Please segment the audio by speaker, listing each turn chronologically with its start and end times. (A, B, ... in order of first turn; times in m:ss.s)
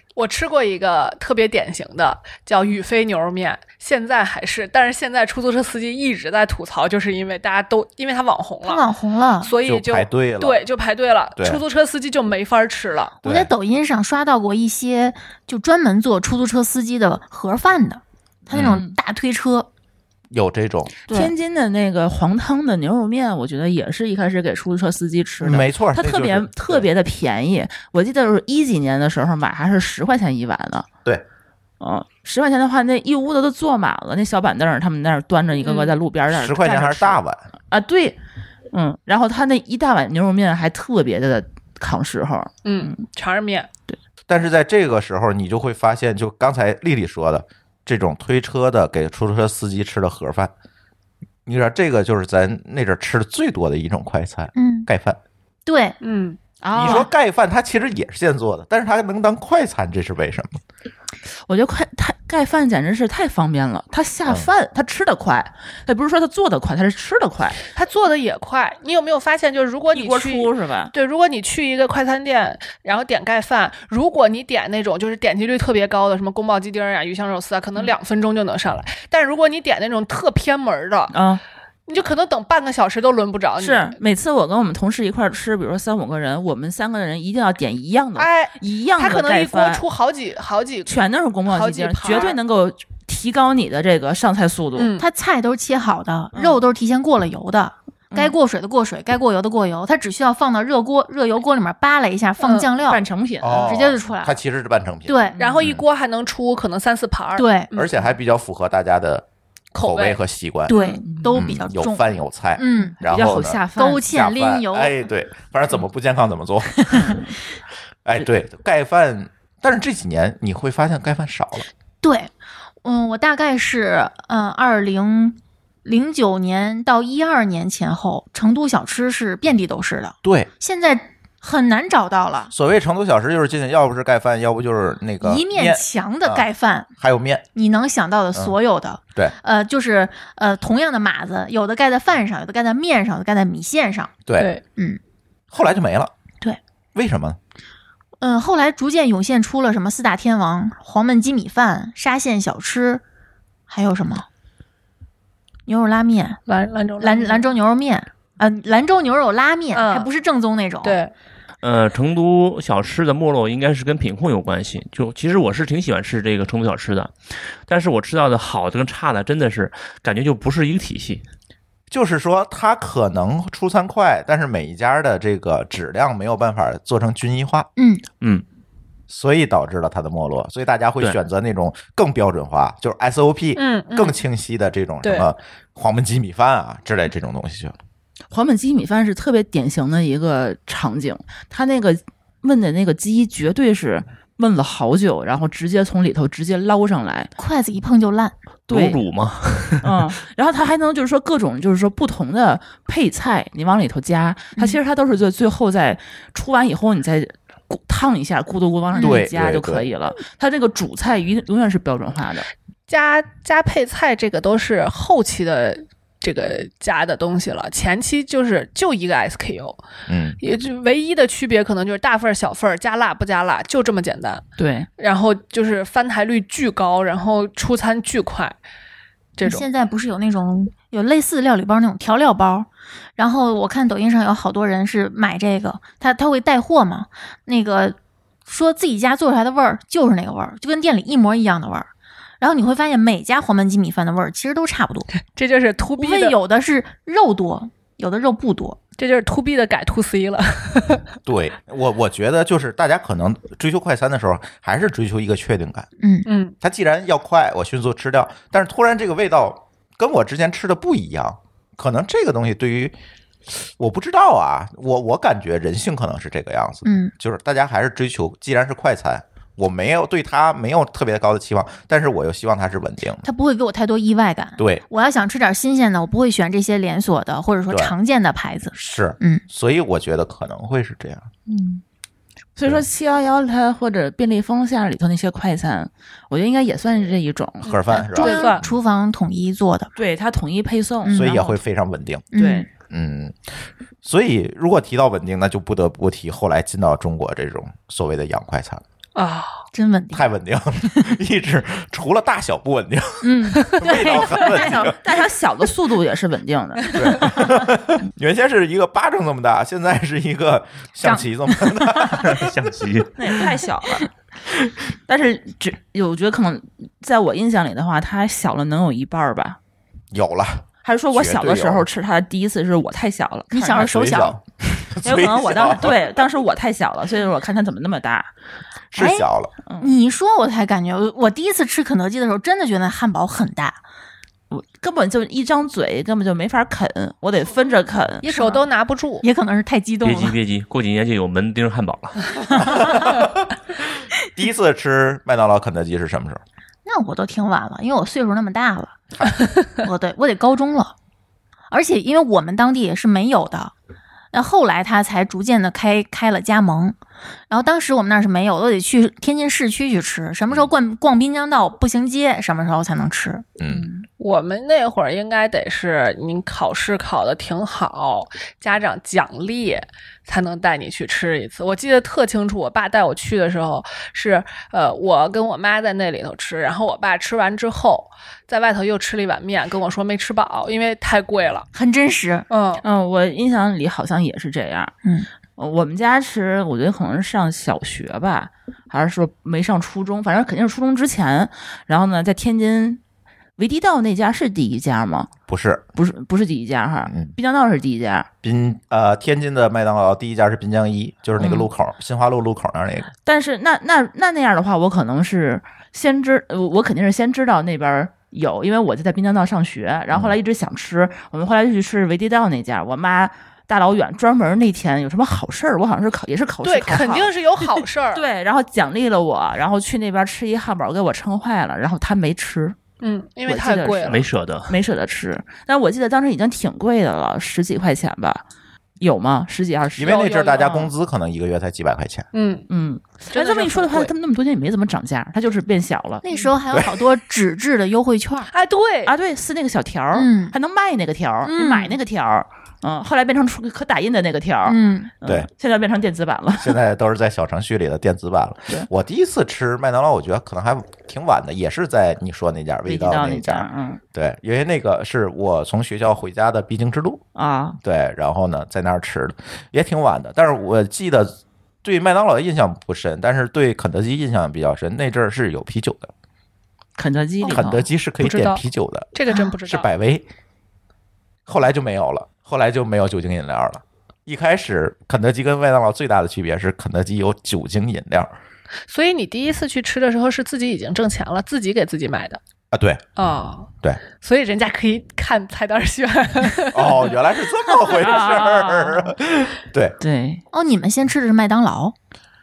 0:00.2-0:08.8 A
0:08.6-0:09.5 B
0:09.4-0:13.2 A
0:09.6-0:10.6 C
0:11.4-0:11.6 C
0:13.2-0:13.5 C
0:13.2-0:19.7 B
0:18.5-0:18.8 C
0:18.6-0:18.9 D
0:20.3-0:20.9 C
0:21.1-0:30.9 D
0:25.4-0:26.9 C
0:31.8-0:38.2 D
0:35.6-0:35.9 A
0:36.3-0:37.4 C
0:38.7-0:43.0 D
0:42.6-0:43.7 A
0:44.3-0:50.5 C
0:51.4-0:55.2 C
0:54.5-0:54.9 B
0:55.6-0:56.0 B
0:56.0-0:56.4 A
0:56.6-0:57.1 D
0:56.7-1:00.6 C
1:01.4-1:07.6 D
1:07.7-1:21.1 A
1:09.9-1:10.9 D
1:21.1-1:21.4 D
1:21.9-1:23.9 A
1:23.6-1:29.8 D
1:28.2-1:30.9 A
1:30.8-1:34.9 D
1:31.5-1:32.4 A
1:34.8-1:35.0 A
1:35.0-1:44.4 B
1:36.3-1:36.6 D
1:42.4-1:42.7 A
1:42.8-1:43.7 D
1:43.4-1:45.8 C
1:45.1-1:45.4 B
1:45.4-1:48.0 A
1:47.4-1:47.7 B
1:47.7-1:57.2 C
1:49.7-1:50.2 A
1:50.7-1:53.0 B
1:53.0-1:54.1 D
1:53.7-1:55.0 B
1:56.9-1:57.2 B
1:58.0-2:01.7 C
2:02.0-2:02.3 B
2:02.8-2:12.5 B
2:10.2-2:10.5 C
2:12.5-2:16.5 C
2:15.2-2:16.9 B
2:17.0-2:17.4 C
2:17.5-2:24.2 B
2:24.2-2:24.5 C
2:24.4-2:24.6 A
2:25.5-2:26.1 C
2:26.9-2:27.4 C
2:28.2-2:33.0 B
2:33.7-2:34.2 B
2:35.7-2:36.4 B
2:36.4-2:37.5 A
2:37.0-2:41.0 B
2:39.7-2:40.1 A
2:40.8-2:41.1 A
2:41.6-2:51.2 E
2:51.9-2:57.7 C
2:57.8-2:58.0 B
2:59.1-3:07.7 C
3:03.6-3:04.2 A
3:05.0-3:05.3 A
3:08.3-3:17.3 D
3:17.4-3:18.3 B
3:18.7-3:20.0 E
3:18.7-3:19.0 D
3:19.8-3:32.5 D
3:29.0-3:29.9 C
3:32.9-3:39.8 A
3:40.1-3:40.4 C
3:40.4-3:44.4 A
3:44.6-3:44.9 D
3:45.0-3:48.6 A
3:49.4-3:49.7 A
3:49.4-3:58.0 B
3:58.5-4:01.9 B
4:02.4-4:05.1 B
4:05.1-4:06.4 A
4:06.0-4:08.8 B
4:09.0-4:11.0 A
4:11.2-4:15.9 C
4:16.0-4:16.3 B
4:16.2-4:16.5 A
4:16.6-4:22.9 C
4:23.5-4:33.2 C
4:26.8-4:27.1 B
4:33.2-4:39.4 B
4:34.6-4:34.8 C
4:38.7-4:41.3 C
4:41.5-4:41.8 D
4:42.6-4:47.8 D
4:47.6-4:48.6 A
4:47.6-4:48.7 C
4:47.9-4:49.9 B
4:50.0-4:51.5 D
4:51.0-4:51.6 B
4:51.1-4:52.3 C
4:52.3-4:52.7 B
4:52.3-4:52.7 D
4:52.9-4:58.8 C
4:59.1-4:59.6 A
4:59.7-5:00.3 B
5:00.1-5:05.0 C
5:03.2-5:04.9 B
5:04.4-5:07.4 D
5:06.9-5:12.5 C
5:11.0-5:12.2 B
5:12.2-5:13.4 E
5:13.2-5:14.1 D
5:15.1-5:19.6 D
5:20.1-5:21.8 C
5:20.8-5:23.9 D
5:23.5-5:24.4 B
5:23.7-5:26.0 C
5:25.0-5:28.3 D
5:28.9-5:29.5 C
5:29.0-5:29.3 B
5:29.7-5:30.0 D
5:29.8-5:33.8 B
5:34.5-5:38.2 D
5:38.2-5:38.6 B
5:38.2-5:39.2 A
5:39.2-5:40.4 B
5:40.0-5:42.8 E
5:42.5-5:43.5 C
5:44.3-5:46.4 C
5:46.8-5:49.0 B
5:49.8-5:50.9 B
5:51.7-5:53.7 B
5:54.3-5:57.0 B
5:57.5-6:03.5 B
6:03.6-6:03.9 C
6:04.2-6:21.7 A
6:21.7-6:22.5 B
6:22.5-6:22.8 A
6:22.8-6:24.9 D
6:25.6-6:33.0 D
6:33.6-6:35.3 D
6:35.5-6:35.8 C
6:35.9-6:38.3 D
6:37.1-6:37.3 C
6:38.4-6:43.1 C
6:41.4-6:41.7 D
6:43.2-7:02.8 D
6:50.1-6:50.3 C
6:56.6-6:58.2 A
7:03.0-7:04.2 A
7:03.4-7:08.4 D
7:04.0-7:04.8 E
7:09.0-7:10.3 D
7:10.0-7:12.3 C
7:10.0-7:10.9 A
7:12.3-7:12.7 A
7:12.7-7:16.2 D
7:13.3-7:14.1 A
7:16.2-7:18.5 B
7:16.7-7:17.0 C
7:18.5-7:19.1 A
7:19.0-7:26.8 D
7:20.1-7:20.5 B
7:21.4-7:22.0 B
7:24.6-7:25.1 B
7:26.6-7:37.2 C
7:32.8-7:34.0 D
7:37.3-7:37.8 D
7:37.8-7:46.1 C
7:47.0-7:47.8 D
7:47.4-7:49.1 C
7:48.2-7:49.9 A
7:49.6-7:50.2 C
7:51.5-7:58.3 C
7:58.8-8:02.4 A
8:02.7-8:03.0 C
8:03.2-8:07.2 A
8:06.7-8:10.0 C
8:07.9-8:09.1 D
8:10.0-8:10.4 D
8:10.5-8:11.9 B